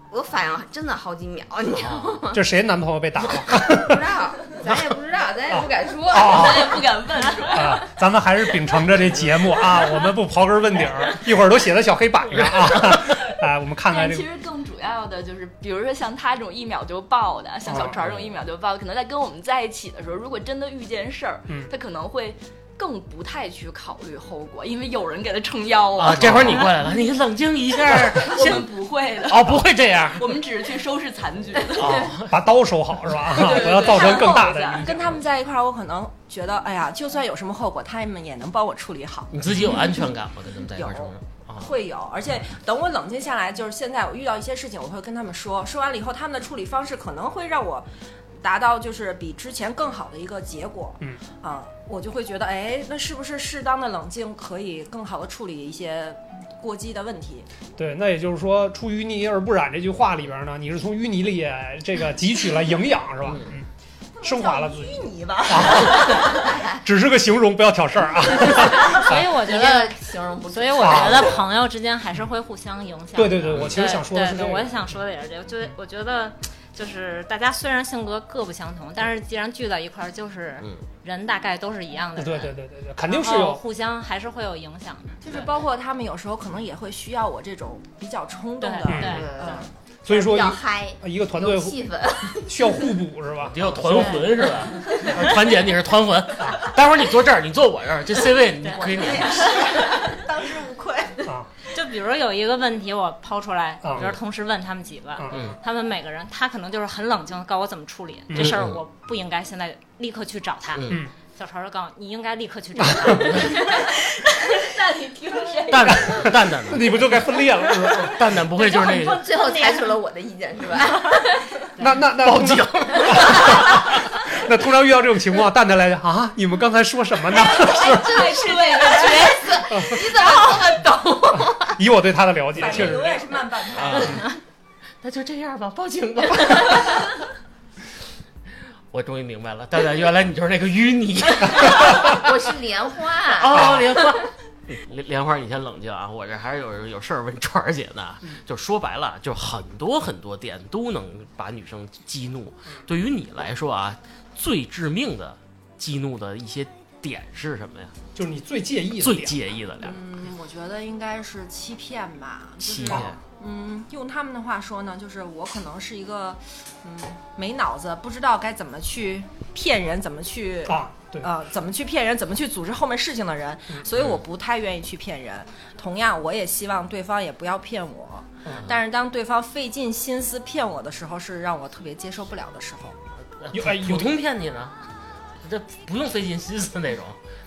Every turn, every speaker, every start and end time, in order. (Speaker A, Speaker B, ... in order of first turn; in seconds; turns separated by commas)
Speaker A: 0.1-2.4, Speaker B: 1.7-2.3, Speaker C: 2.3-4.0, Speaker A: 3.5-6.8, Speaker C: 5.5-6.8, Speaker D: 6.1-7.9, Speaker C: 7.5-14.3, Speaker B: 9.0-9.4, Speaker B: 12.3-13.0, Speaker D: 13.9-26.7, Speaker C: 17.7-17.9, Speaker B: 17.9-18.4, Speaker B: 25.9-28.7, Speaker D: 27.9-32.1, Speaker B: 29.2-30.4, Speaker B: 31.7-32.4, Speaker C: 32.2-35.1, Speaker D: 33.3-34.9, Speaker E: 34.8-39.9, Speaker B: 39.3-41.7, Speaker E: 40.7-47.9, Speaker E: 48.4-57.5, Speaker C: 57.8-63.7, Speaker B: 63.2-63.5, Speaker E: 64.2-66.5, Speaker C: 64.2-69.3, Speaker F: 68.5-82.5, Speaker A: 69.1-71.4, Speaker C: 70.8-71.3, Speaker C: 73.1-74.7, Speaker B: 73.4-73.8, Speaker C: 82.2-83.6, Speaker F: 83.1-85.3, Speaker E: 85.2-89.3, Speaker F: 88.6-89.7, Speaker C: 88.9-89.2, Speaker A: 89.0-92.8, Speaker C: 90.0-94.2, Speaker B: 93.4-99.7, Speaker A: 93.9-94.5, Speaker F: 98.6-98.9, Speaker E: 98.8-101.2, Speaker C: 101.2-101.5, Speaker F: 101.7-114.0, Speaker C: 103.8-104.1, Speaker C: 105.2-105.5, Speaker C: 108.3-108.5, Speaker B: 108.3-108.8, Speaker B: 110.7-111.0, Speaker D: 113.5-116.3, Speaker B: 115.7-117.2, Speaker C: 115.9-118.2, Speaker B: 118.0-119.3, Speaker F: 118.5-119.9, Speaker A: 118.8-121.5, Speaker C: 121.8-128.3, Speaker B: 122.2-123.8, Speaker A: 123.1-123.6, Speaker D: 127.3-129.6, Speaker A: 127.5-131.8, Speaker E: 128.7-129.3, Speaker C: 129.7-130.0, Speaker E: 130.2-130.6, Speaker C: 131.4-133.3, Speaker E: 132.6-134.3, Speaker B: 133.7-134.3, Speaker B: 135.0-137.2, Speaker B: 138.9-142.3, Speaker A: 141.8-144.2, Speaker B: 143.3-157.9, Speaker C: 158.1-159.4, Speaker B: 159.0-160.0, Speaker E: 159.8-183.0, Speaker B: 162.6-163.2, Speaker C: 170.7-171.3, Speaker B: 173.9-174.2, Speaker B: 183.4-184.8, Speaker C: 183.5-184.1, Speaker B: 185.4-187.2